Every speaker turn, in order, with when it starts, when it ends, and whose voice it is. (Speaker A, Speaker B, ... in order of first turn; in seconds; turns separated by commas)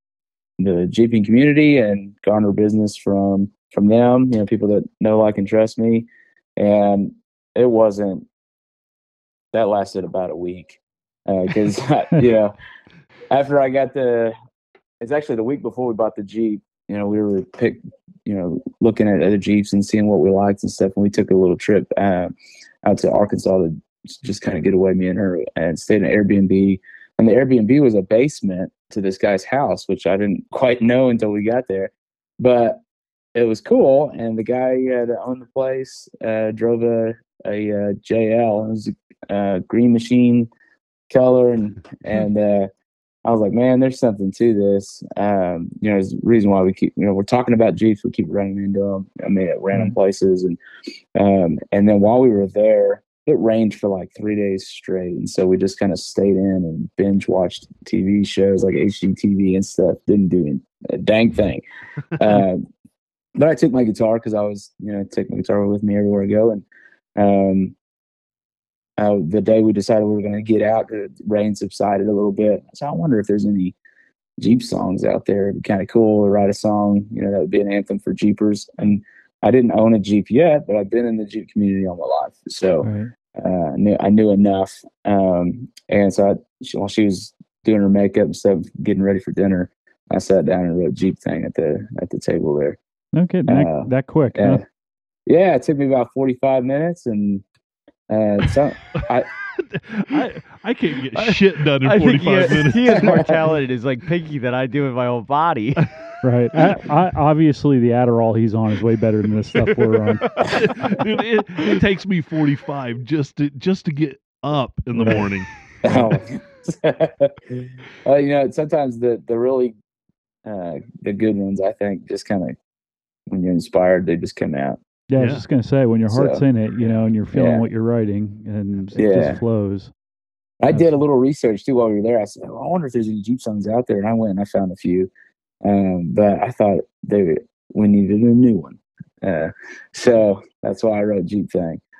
Speaker A: 0.6-8.2, Speaker A: 9.5-12.5, Speaker A: 13.3-14.3, Speaker A: 15.0-22.3, Speaker A: 22.8-32.8, Speaker A: 33.3-40.5, Speaker A: 41.1-42.7, Speaker A: 43.2-50.6, Speaker A: 51.1-61.6, Speaker A: 62.2-62.6, Speaker A: 63.4-66.6, Speaker A: 67.2-67.7, Speaker A: 69.0-73.7, Speaker A: 74.4-92.8, Speaker B: 82.8-83.1, Speaker B: 93.1-94.6, Speaker A: 93.5-94.6, Speaker A: 95.3-97.4, Speaker A: 98.1-99.3, Speaker C: 99.6-103.3, Speaker D: 101.1-105.9, Speaker B: 106.2-110.2, Speaker D: 110.3-111.0, Speaker C: 110.4-115.5, Speaker B: 114.9-115.2, Speaker A: 115.8-119.7, Speaker A: 120.4-122.5, Speaker A: 123.3-124.8, Speaker B: 125.1-129.9, Speaker C: 125.2-125.4, Speaker A: 126.1-126.5, Speaker A: 127.3-127.7, Speaker A: 128.9-129.4, Speaker A: 130.6-135.1, Speaker B: 130.7-131.0, Speaker A: 135.6-141.8